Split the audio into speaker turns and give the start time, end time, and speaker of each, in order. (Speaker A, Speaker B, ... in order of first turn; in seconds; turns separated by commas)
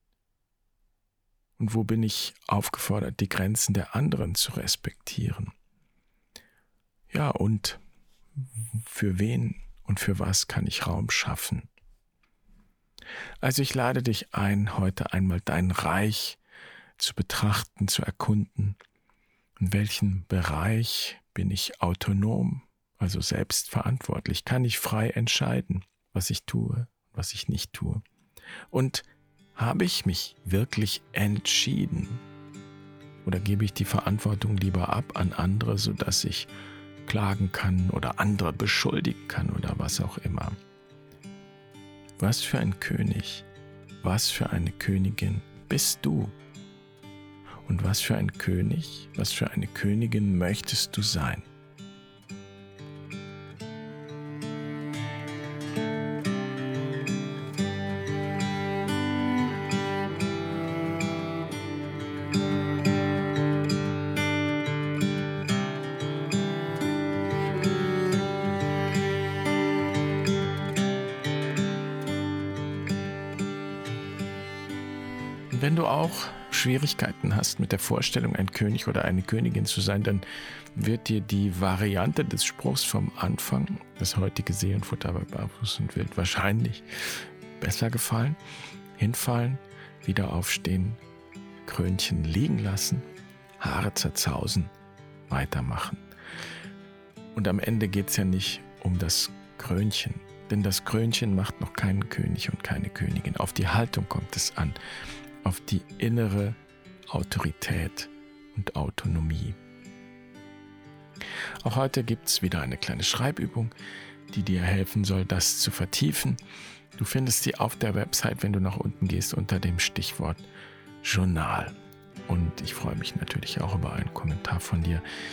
Speaker A: 1.6-5.5, Speaker A: 7.1-7.8, Speaker A: 8.6-11.7, Speaker A: 13.4-16.4, Speaker A: 17.0-18.8, Speaker A: 19.6-28.0, Speaker A: 28.7-32.2, Speaker A: 33.2-36.5, Speaker A: 37.1-40.6, Speaker A: 42.2-43.5, Speaker A: 44.0-46.4, Speaker A: 47.7-51.5, Speaker A: 75.5-88.4, Speaker A: 89.0-91.0, Speaker A: 91.7-93.0, Speaker A: 93.6-94.7, Speaker A: 95.3-96.0, Speaker A: 97.3-104.8, Speaker A: 105.4-106.6, Speaker A: 107.1-109.6, Speaker A: 111.6-113.7, Speaker A: 114.3-116.4, Speaker A: 117.0-120.5, Speaker A: 121.0-121.8, Speaker A: 122.3-125.0